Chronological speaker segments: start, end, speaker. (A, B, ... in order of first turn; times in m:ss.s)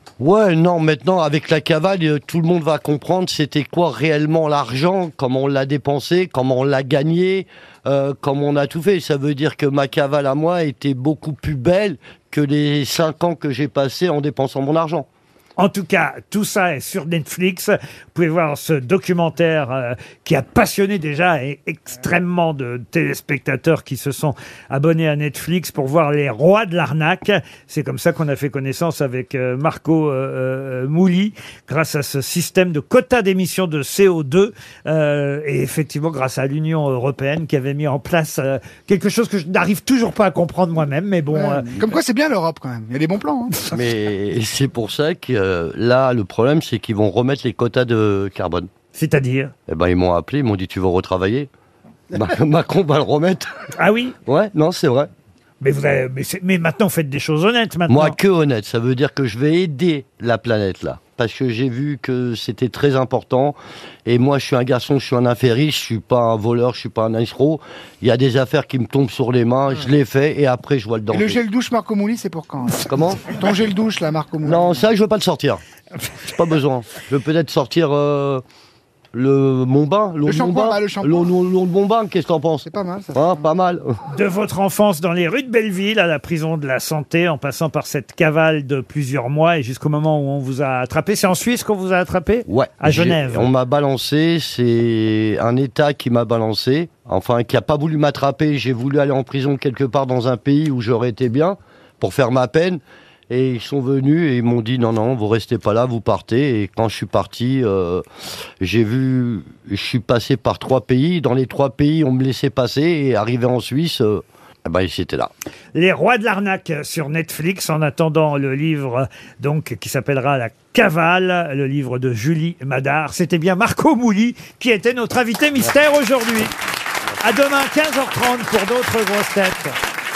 0:00.2-0:15.1 A
0:15.6-0:41.8 B
0:41.3-0:43.6 C
0:43.7-0:48.7 A
0:48.9-0:49.5 B
0:49.7-0:51.5 A
0:52.1-0:53.5 A
0:53.8-0:54.2 B
0:54.2-0:55.1 A
0:55.6-0:58.2 B
0:57.9-1:11.4 A
1:11.1-1:14.8 C
1:12.9-1:13.3 A
1:14.4-1:15.6 A
1:16.2-1:18.4 A
1:19.1-1:23.9 A
1:20.2-1:21.2 C
1:22.7-1:23.4 C
1:24.1-1:33.5 B
1:32.5-1:48.0 A
1:48.6-1:55.3 A
1:55.7-2:06.5 B
2:07.2-2:09.8 B